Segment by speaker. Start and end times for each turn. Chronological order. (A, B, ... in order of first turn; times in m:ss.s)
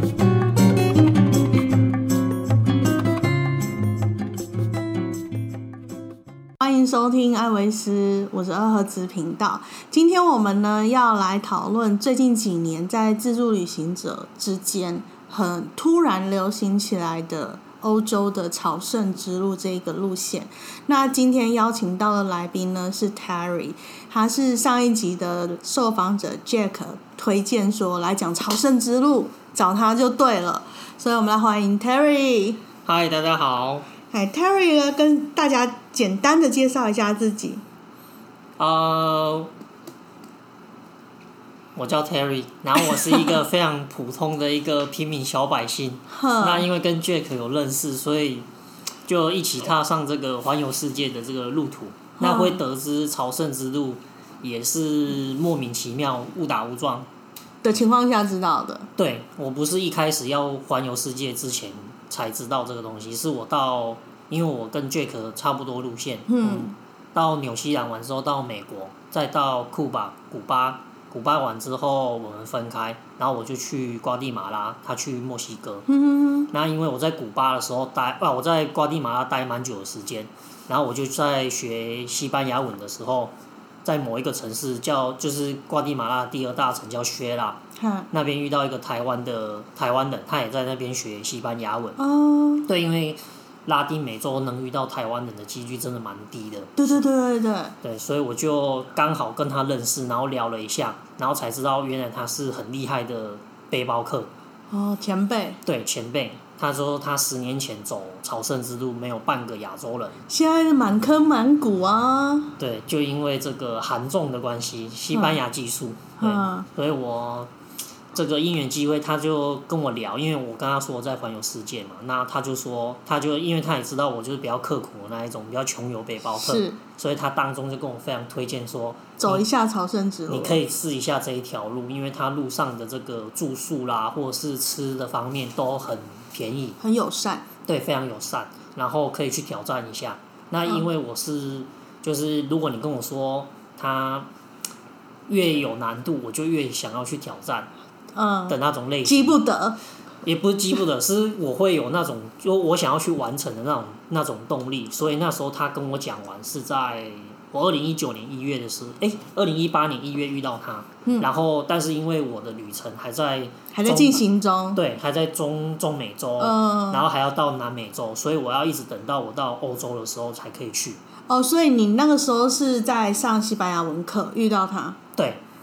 0:06.6-0:32.6 A
0:32.8-0:33.9 B
0:34.1-0:37.6 A
0:38.6-0:39.5 B
0:41.8-0:48.5 B
0:42.8-0:43.3 A
0:46.1-0:46.7 A
0:49.0-0:57.1 B
0:52.2-0:52.6 A
0:57.6-0:58.9 A
0:59.0-1:15.8 B
1:06.3-1:06.8 A
1:15.9-1:16.5 A
1:16.5-1:32.0 B
1:27.8-1:28.1 A
1:32.0-1:32.7 A
1:32.6-1:37.0 B
1:36.8-1:37.7 A
1:37.8-1:44.3 B
1:44.7-1:45.6 A
1:45.6-1:50.2 B
1:50.3-1:52.6 A
1:52.6-1:57.5 B
1:55.1-1:55.4 A
1:56.2-1:56.7 A
1:58.1-2:09.4 B
2:06.4-2:06.8 A
2:09.2-2:10.6 A
2:10.3-2:16.8 B
2:16.8-2:17.4 A
2:17.6-2:24.3 B
2:25.3-2:27.7 B
2:28.1-2:29.8 A
2:28.5-2:29.4 B
2:30.2-2:44.2 B
2:43.7-2:44.8 A
2:44.7-2:51.0 B
2:46.4-2:47.0 A
2:51.3-2:55.0 A
2:55.2-2:55.4 B